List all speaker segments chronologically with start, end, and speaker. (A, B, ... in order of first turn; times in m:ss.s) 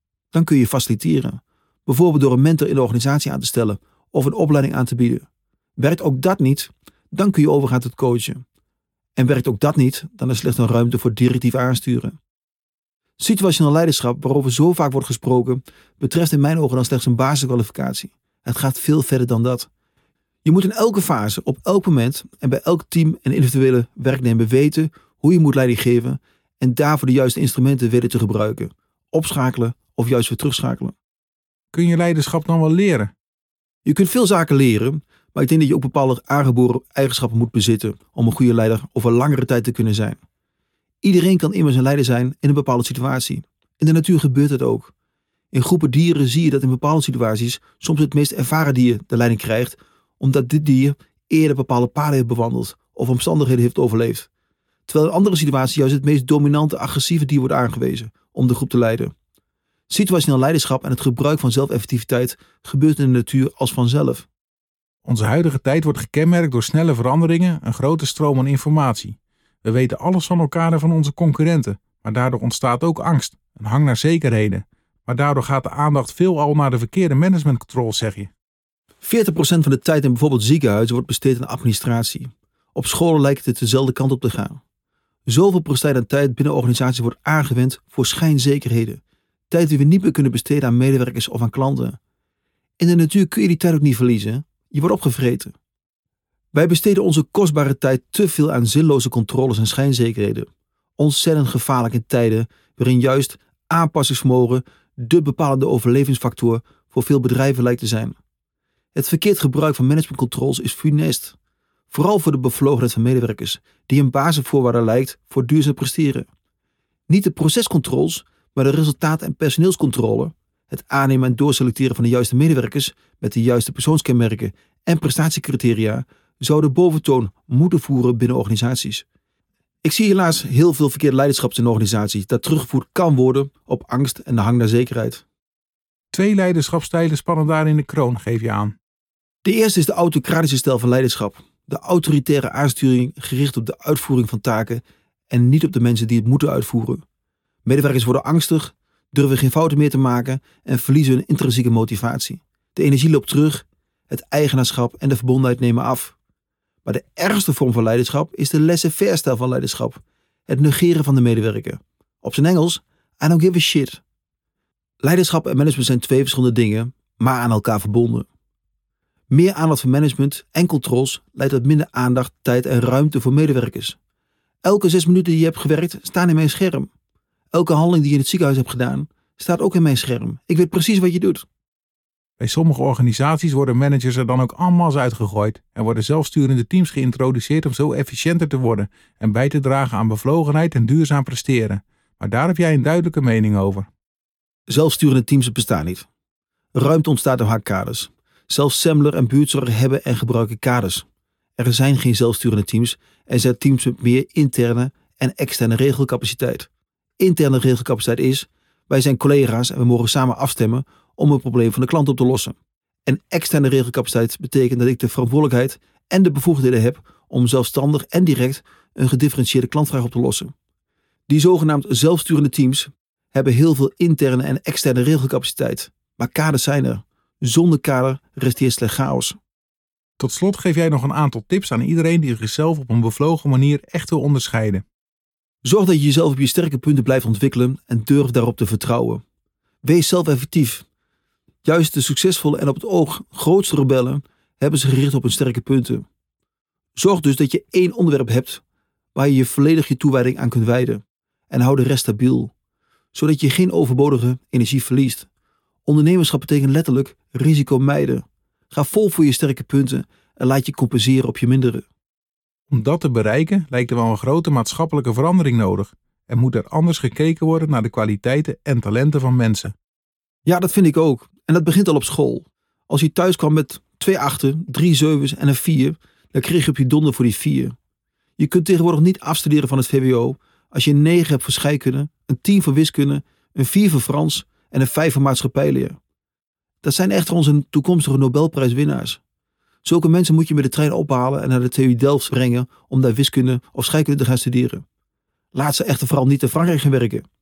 0:00.3-0:05.3 A
0:05.8-0:08.4 A
0:09.2-0:12.2 A
0:13.2-0:19.7 A
0:20.4-0:31.0 A
0:31.7-0:33.1 B
0:33.8-0:40.2 A
0:41.0-0:44.9 A
0:45.5-0:54.3 A
0:54.9-0:59.1 A
0:59.9-1:04.3 A
1:05.0-1:18.3 B
1:19.0-1:24.6 A
1:25.3-1:32.0 A
1:32.8-1:35.5 A
1:36.5-1:48.2 A
1:48.9-1:51.4 A
1:51.9-1:56.3 A
1:57.1-2:09.0 A
2:09.8-2:15.2 A
2:16.1-2:18.8 B
2:19.4-2:27.0 A
2:27.6-2:36.2 A
2:36.8-2:44.0 A
2:45.0-2:48.3 A
2:49.3-2:54.0 A
2:54.6-2:56.9 A
2:57.5-3:01.4 A
3:02.4-3:13.9 B
3:14.7-3:16.1 A
3:16.7-3:21.1 A
3:21.6-3:40.5 A
3:41.3-3:49.4 A
3:50.2-3:54.8 B
3:55.6-3:59.2 A
3:59.8-4:00.8 A
4:01.6-4:06.0 A
4:07.0-4:08.6 A
4:09.2-4:12.5 A
4:13.1-4:15.3 A
4:15.9-4:21.9 A
4:22.7-4:29.7 B
4:30.4-4:37.8 A
4:38.4-4:46.0 A
4:46.8-4:49.2 A
4:49.8-4:54.8 A
4:55.5-4:57.2 A